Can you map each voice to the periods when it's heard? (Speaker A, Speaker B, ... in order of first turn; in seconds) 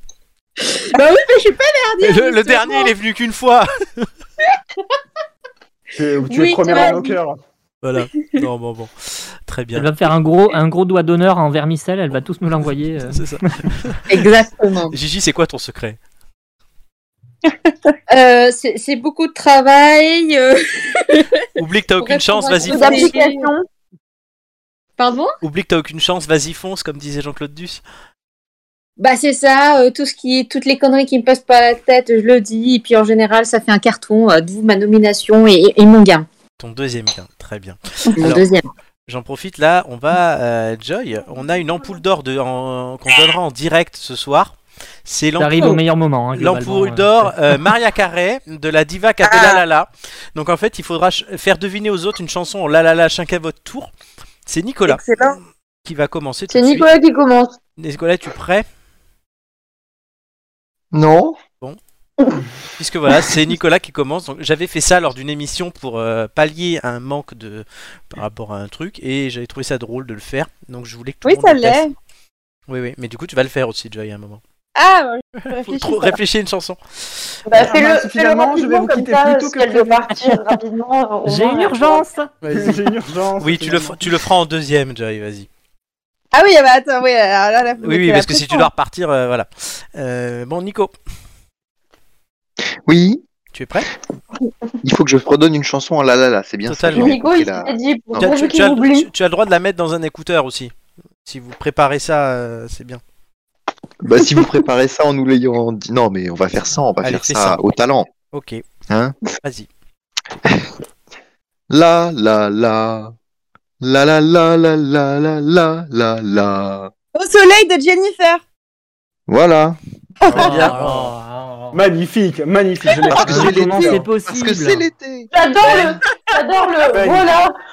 Speaker A: 0.6-2.9, 6.3-6.9, 14.1-14.9, 18.1-21.4, 22.0-23.5, 25.0-25.3, 29.0-36.2, 38.2-38.7
Speaker B: 2.0-4.1, 7.8-9.9, 13.1-14.0, 14.9-16.0, 21.6-23.1, 25.4-27.8, 36.6-38.5, 39.1-45.8, 46.3-53.9, 54.5-56.9, 57.8-58.6, 62.8-71.8, 72.7-74.4, 75.4-77.3, 82.4-82.8, 83.4-85.5, 87.8-90.9, 93.5-93.9, 96.7-97.2, 98.2-100.7, 101.2-103.0, 107.0-107.6, 108.3-108.6, 109.4-109.7, 120.3-121.1
Speaker C: 5.9-7.4, 77.5-80.0, 82.5-84.0, 120.3-120.8, 121.7-124.0, 126.9-127.3
Speaker D: 9.8-13.2, 45.4-47.3, 81.2-82.3, 120.3-121.8, 123.1-124.8
Speaker E: 22.7-23.6, 56.5-57.5, 77.5-82.0, 96.9-99.1, 125.3-127.5
Speaker F: 49.2-49.6, 54.9-55.4, 71.2-71.9, 74.8-76.2, 86.3-88.7, 117.1-118.4
Speaker G: 60.9-61.4, 92.8-93.2, 94.8-98.3, 104.0-108.1, 108.9-109.2, 110.4-110.7, 111.7-113.1, 113.8-116.9, 119.3-119.8, 123.1-125.3